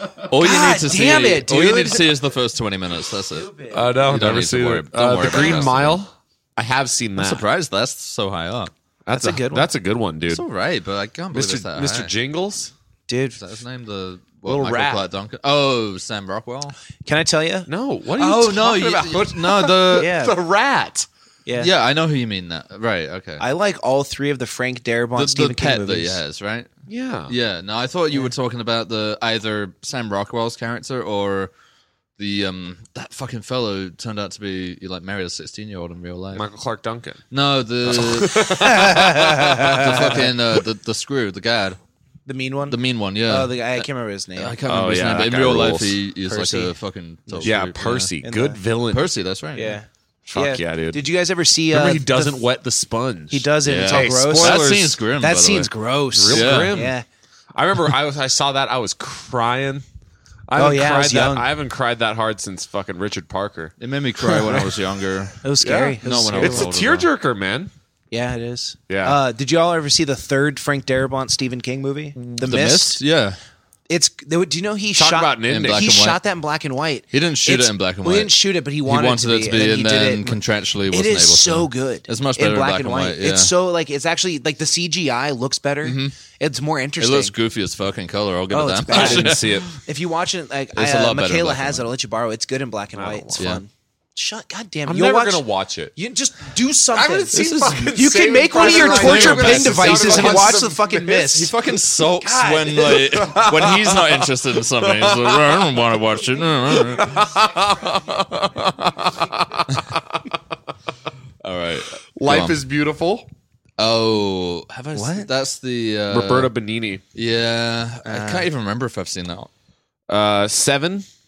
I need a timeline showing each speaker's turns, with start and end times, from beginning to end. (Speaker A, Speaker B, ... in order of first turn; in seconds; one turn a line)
Speaker A: 0.2-3.5
Speaker B: 0.3-2.1
Speaker B: 3.3-3.9
Speaker C: 3.7-7.4
Speaker A: 4.0-6.0
Speaker B: 5.2-5.7
Speaker A: 7.2-8.7
Speaker C: 9.1-10.4
Speaker B: 9.1-9.7
Speaker A: 10.3-12.1
Speaker C: 11.3-12.7
Speaker B: 13.1-13.4
Speaker A: 13.4-16.7
Speaker B: 14.5-15.0
Speaker B: 17.0-17.7
Speaker C: 17.7-21.1
Speaker A: 18.2-20.1
Speaker B: 19.9-20.4
Speaker A: 21.6-23.4
Speaker B: 23.4-26.2
Speaker A: 25.1-26.7
Speaker C: 26.9-27.3
Speaker A: 27.3-31.5
Speaker A: 32.2-36.5
Speaker C: 36.3-37.2
Speaker A: 37.3-41.8
Speaker C: 37.9-40.2
Speaker B: 38.8-40.0
Speaker B: 42.2-44.5
Speaker A: 42.7-43.8
Speaker A: 44.4-48.1
Speaker C: 44.6-46.0
Speaker B: 46.3-46.7
Speaker C: 47.4-49.1
Speaker B: 48.2-48.6
Speaker A: 48.9-49.8
Speaker B: 49.5-52.4
Speaker C: 50.3-51.0
Speaker C: 51.7-55.0
Speaker B: 53.3-57.0
Speaker A: 53.6-55.7
Speaker C: 56.1-57.0
Speaker A: 56.3-56.8
Speaker C: 57.5-59.8
Speaker C: 60.5-63.7
Speaker B: 60.5-61.5
Speaker A: 63.8-65.4
Speaker B: 65.4-66.7
Speaker C: 65.6-67.7
Speaker A: 66.0-67.1
Speaker B: 68.1-73.0
Speaker C: 68.9-69.2
Speaker A: 72.4-73.4
Speaker B: 73.9-87.3
Speaker C: 75.0-75.9
Speaker A: 75.5-76.2
Speaker A: 77.1-78.3
Speaker A: 78.8-83.5
Speaker A: 85.8-86.2
Speaker A: 87.0-89.8
Speaker B: 88.5-95.4
Speaker C: 88.9-89.7
Speaker A: 90.7-91.9
Speaker C: 92.9-93.5
Speaker C: 94.9-95.9
Speaker B: 96.0-97.4
Speaker C: 96.9-101.2
Speaker A: 97.3-98.0
Speaker B: 97.9-101.5
Speaker A: 98.5-107.3
Speaker B: 102.2-103.1
Speaker C: 103.0-104.2
Speaker C: 104.8-105.7
Speaker C: 106.7-110.2
Speaker A: 108.5-109.1
Speaker A: 111.4-112.6
Speaker C: 112.2-113.3
Speaker A: 113.8-116.5
Speaker B: 114.9-115.3
Speaker C: 116.1-117.0
Speaker A: 117.1-119.5
Speaker B: 118.1-118.5
Speaker C: 120.1-121.0